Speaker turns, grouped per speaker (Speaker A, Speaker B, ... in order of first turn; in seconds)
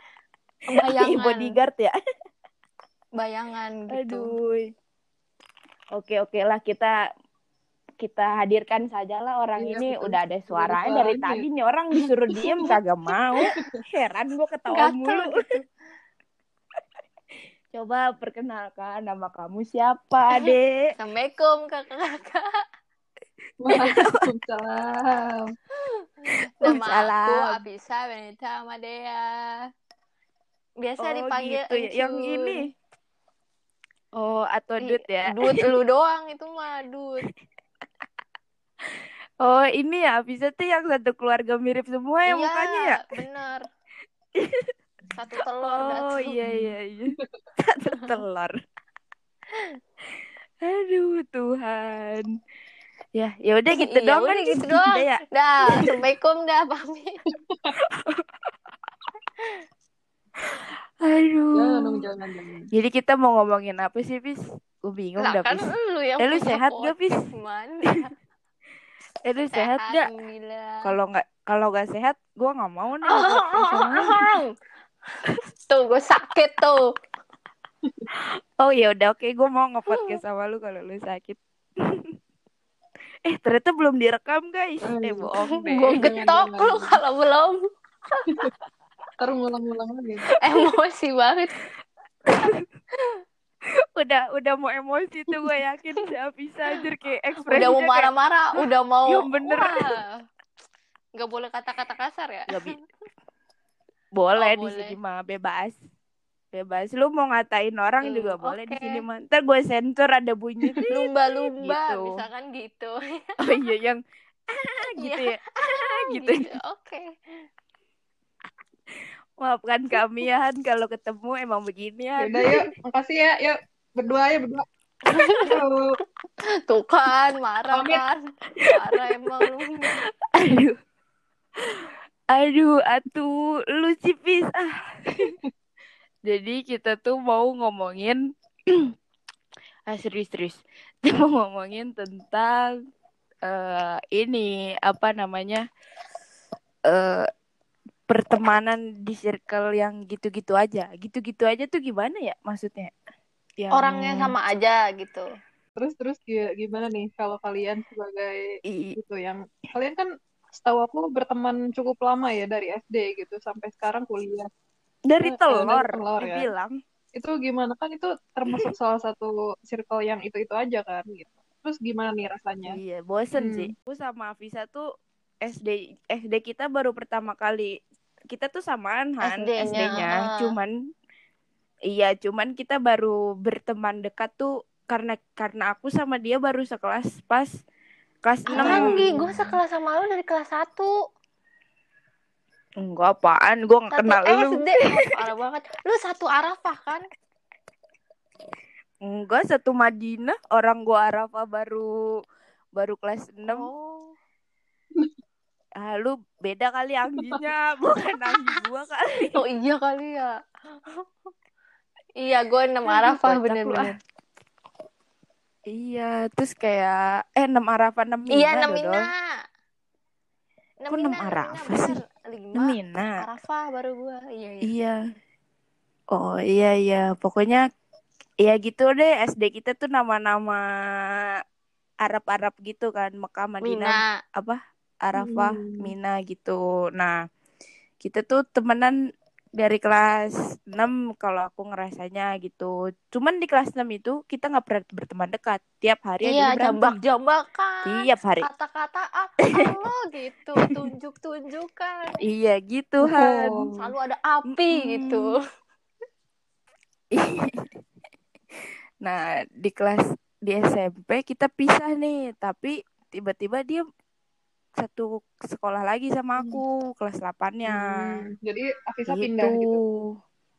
Speaker A: 0.7-1.6, 3.2-4.3, 12.3-12.7, 14.7-15.7, 20.3-22.4, 26.2-29.3, 30.8-32.7, 34.8-37.3, 42.3-43.6, 45.1-46.4, 53.7-57.1, 65.2-68.1, 69.5-70.8, 73.0-74.5, 75.7-76.8, 85.5-87.6, 90.4-91.5, 97.5-100.1, 101.2-102.8, 104.4-105.0, 108.0-109.0, 110.9-113.6, 115.0-117.1, 125.1-125.5, 126.7-130.0, 153.7-155.3, 179.2-180.5, 188.5-190.9, 193.9-197.0, 203.4-204.1, 208.2-208.6, 209.3-210.3, 212.2-213.9, 218.3-219.2, 220.8-224.7, 233.6-234.1, 246.2-252.1, 253.8-255.4
Speaker B: 0.8-1.9, 3.9-4.6, 6.0-6.9, 8.0-15.4, 17.7-20.8, 23.7-24.2, 26.6-27.6, 31.0-32.6, 34.1-35.7, 38.9-43.2, 44.4-44.7, 45.6-48.5, 50.6-52.3, 53.1-55.2, 57.8-58.5, 60.5-62.0, 62.7-65.7, 66.2-67.2, 69.2-70.1, 70.8-74.3, 78.6-82.2, 83.2-86.1, 92.2-92.7, 94.0-99.9, 102.5-102.8, 104.1-105.8, 106.5-112.1, 113.4-116.6, 119.4-122.5, 128.9-130.8, 131.6-135.3, 136.3-138.9, 139.9-142.8, 143.4-145.6, 146.9-147.3, 148.1-152.9, 153.6-154.3, 158.7-159.0, 165.1-166.8, 168.5-168.7, 172.7-174.9, 175.4-177.8, 178.3-180.7, 181.9-187.5, 188.2-189.0, 192.8-194.9, 199.0-202.0, 202.8-203.7, 205.8-209.4, 212.8-213.9, 215.7-219.1, 220.9-222.0, 222.6-223.2, 224.6-224.9, 226.1-227.6, 228.4-231.3, 232.0-237.2, 238.0-238.9, 239.6-247.0, 247.8-248.4, 252.2-253.7, 254.5-255.3, 257.1-257.6, 259.0-263.8, 264.8-268.2, 269.1-270.0
Speaker C: 9.6-11.4, 23.6-25.5, 46.4-47.2, 57.5-57.7, 61.5-62.7, 84.8-85.3, 85.9-87.0, 89.2-90.3, 122.2-124.6, 125.5-125.8, 127.7-128.0, 155.8-164.5, 165.2-166.5, 167.1-172.8, 173.4-173.7, 188.5-189.5, 235.2-235.9, 253.1-253.8, 267.7-269.8